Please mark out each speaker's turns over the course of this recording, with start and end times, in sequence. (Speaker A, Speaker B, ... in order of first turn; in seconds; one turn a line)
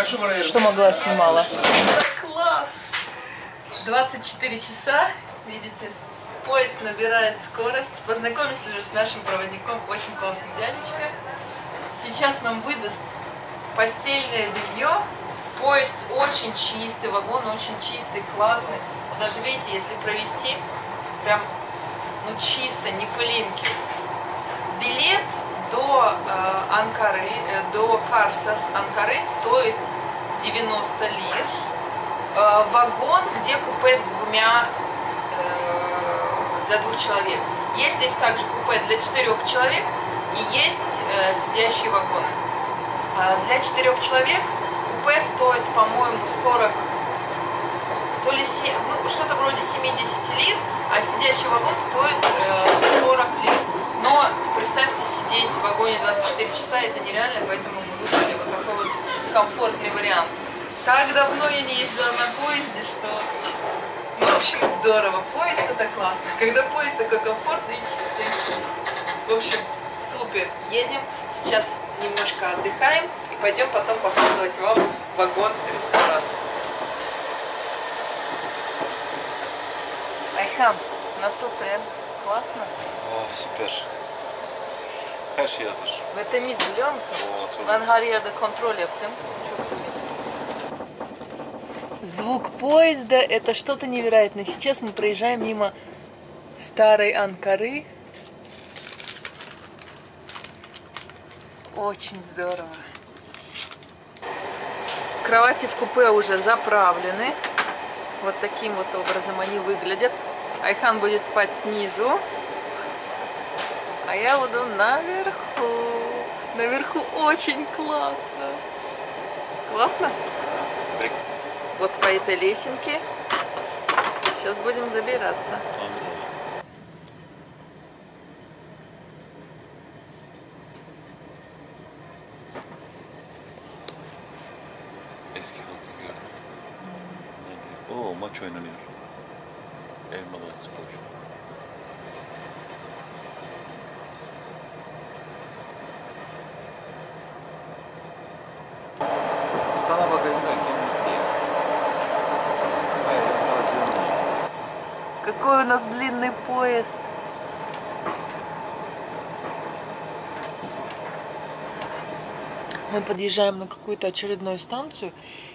Speaker A: 0.2-2.9
Speaker A: 3.8-11.1
Speaker A: 11.9-13.1
Speaker A: 13.7-20.6
Speaker A: 21.2-21.5
Speaker A: 22.2-23.8
Speaker A: 24.7-31.6
Speaker A: 32.3-34.7
Speaker A: 35.3-42.4
Speaker A: 43.1-46.9
Speaker A: 48.2-63.3
Speaker A: 64.2-68.4
Speaker A: 69.3-76.3
Speaker A: 80.3-82.7
Speaker B: 83.0-83.9
Speaker B: 85.3-86.1
Speaker A: 86.1-90.1
Speaker B: 87.2-87.9
Speaker A: 92.0-95.7
Speaker A: 96.6-97.9
Speaker A: 101.7-102.8
Speaker A: 105.2-107.4
Speaker A: 108.2-112.2
Speaker A: 114.1-118.6
Speaker A: 119.7-120.2
Speaker B: 120.3-121.2
Speaker A: 121.8-123.0
Speaker A: 124.3-125.7
Speaker B: 125.7-126.3
Speaker B: 135.3-136.4
Speaker A: 136.8-137.3
Speaker B: 137.3-138.9
Speaker B: 140.1-141.1
Speaker B: 149.8-151.3
Speaker B: 152.9-154.4
Speaker A: 155.2-157.1
Speaker A: 162.9-165.2